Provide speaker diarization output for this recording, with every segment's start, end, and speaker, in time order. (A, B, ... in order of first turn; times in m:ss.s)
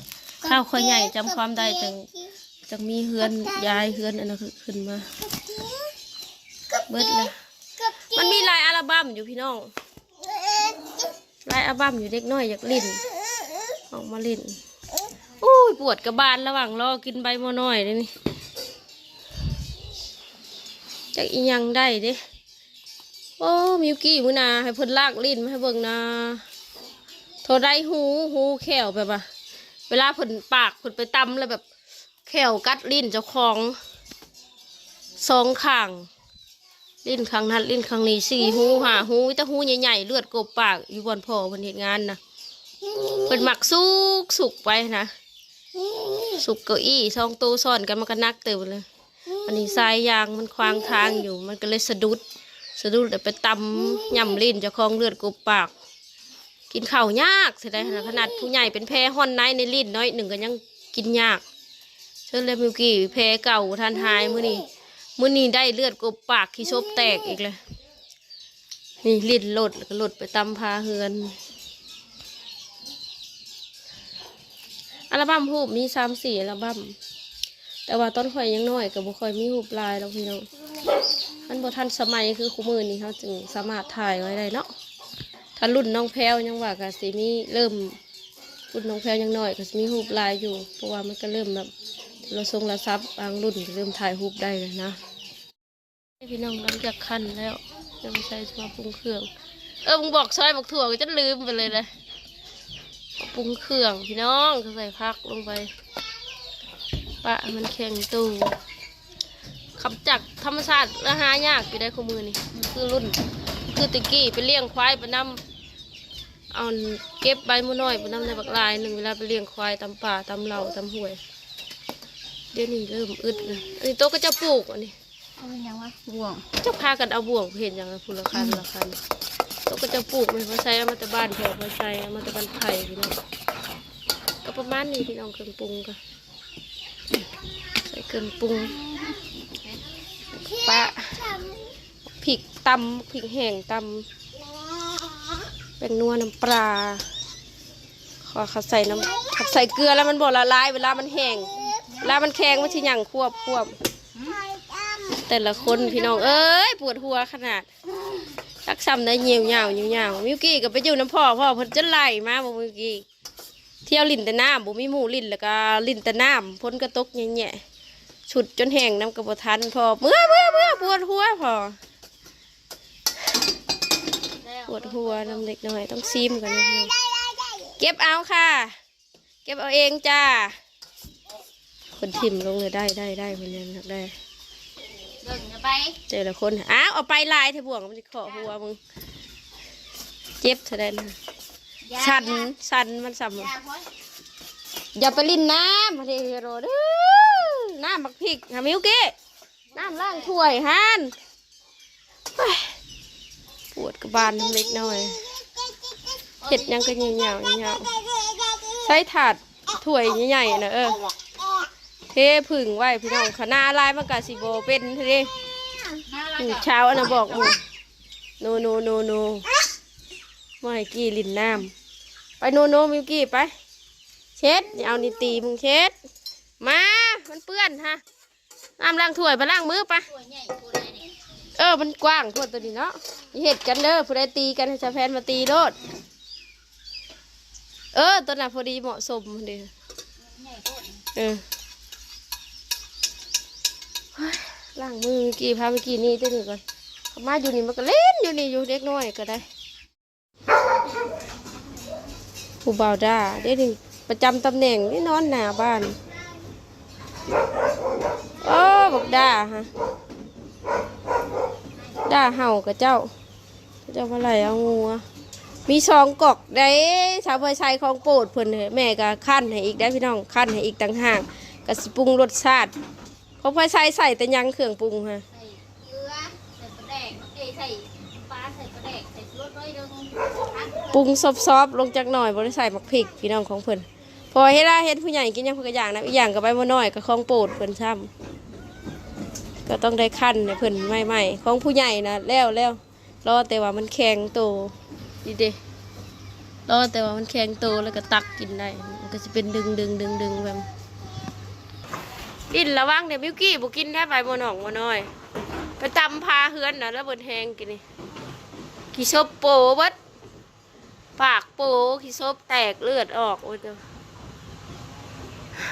0:00.4-0:02.1 A
0:02.6-0:05.1 A
0:06.8-0:07.3 A
0:08.1-0:09.7 A
0:11.4-0:13.0 A
0:13.9-0:14.6 A
0:15.4-0:18.1 A
0:21.1-0:22.2 A
0:23.4-0:26.4 A
0:27.4-0:29.2 A
0:29.9-0:31.6 A
0:32.2-0:33.8 A
0:35.2-0:36.1 A
0:37.0-0:42.2 A
0:43.2-0:45.1 A
0:46.2-0:48.8 A
0:49.4-0:52.2 A
0:52.8-0:55.7 A
0:56.7-1:01.4 A
1:02.3-1:07.6 A
1:09.0-1:11.4 A
1:15.1-1:17.0 A
1:17.9-1:20.5 A
1:21.5-1:24.7 A
1:25.6-1:28.0 A
1:28.7-1:31.7 A
1:32.3-1:35.0 A
1:36.2-1:39.3 A
1:39.8-1:41.9 A
1:43.2-1:45.7 A
1:47.2-1:48.6 A
1:49.8-1:55.4 A
1:56.5-2:01.2 A
2:02.5-2:04.9 A
2:05.4-2:06.5 B
2:06.6-2:09.0 A
2:09.6-2:13.2 A
2:14.4-2:16.0 A
2:17.8-2:18.8 A
2:20.5-2:21.4 A
2:22.2-2:24.0 A
2:25.8-2:27.0 A
2:28.2-2:33.7 A
2:35.1-2:37.7 A
2:38.6-2:43.0 A
2:43.8-2:47.6 A
2:48.3-2:51.8 A
2:54.4-2:55.4 B
2:54.7-2:56.9 A
2:57.8-2:58.8 A
2:59.4-3:00.6 A
3:02.0-3:04.1 A
3:05.2-3:06.0 B
3:06.1-3:08.8 A
3:10.4-3:11.2 A
3:11.9-3:12.5 B
3:12.0-3:13.5 A
3:13.4-3:13.9 B
3:15.0-3:19.1 A
3:19.7-3:21.1 A
3:19.8-3:20.1 B
3:22.3-3:22.7 A
3:23.7-3:25.2 A
3:26.4-3:26.7 B
3:26.5-3:27.9 A
3:28.7-3:31.0 A
3:32.1-3:35.3 A
3:36.0-3:37.5 B
3:36.4-3:37.6 A
3:38.4-3:39.5 A
3:40.6-3:41.7 A
3:42.4-3:43.5 A
3:44.4-3:45.9 A
3:46.6-3:48.0 A
3:48.8-3:50.1 A
3:50.1-3:51.1 B
3:51.6-3:55.8 A
3:57.9-3:59.7 A
4:00.2-4:01.0 B
4:01.1-4:01.4 A
4:04.1-4:06.6 A
4:07.1-4:09.4 A
4:12.6-4:16.0 A
4:18.4-4:19.7 A
4:22.0-4:23.1 A
4:23.8-4:25.0 A
4:25.7-4:32.7 A
4:33.4-4:35.2 A
4:35.3-4:41.0 B
4:40.9-4:48.1 A
4:49.6-4:55.6 A
4:56.7-5:00.6 A
5:02.5-5:05.1 A
5:05.8-5:07.8 A
5:08.9-5:09.9 A
5:11.2-5:13.8 A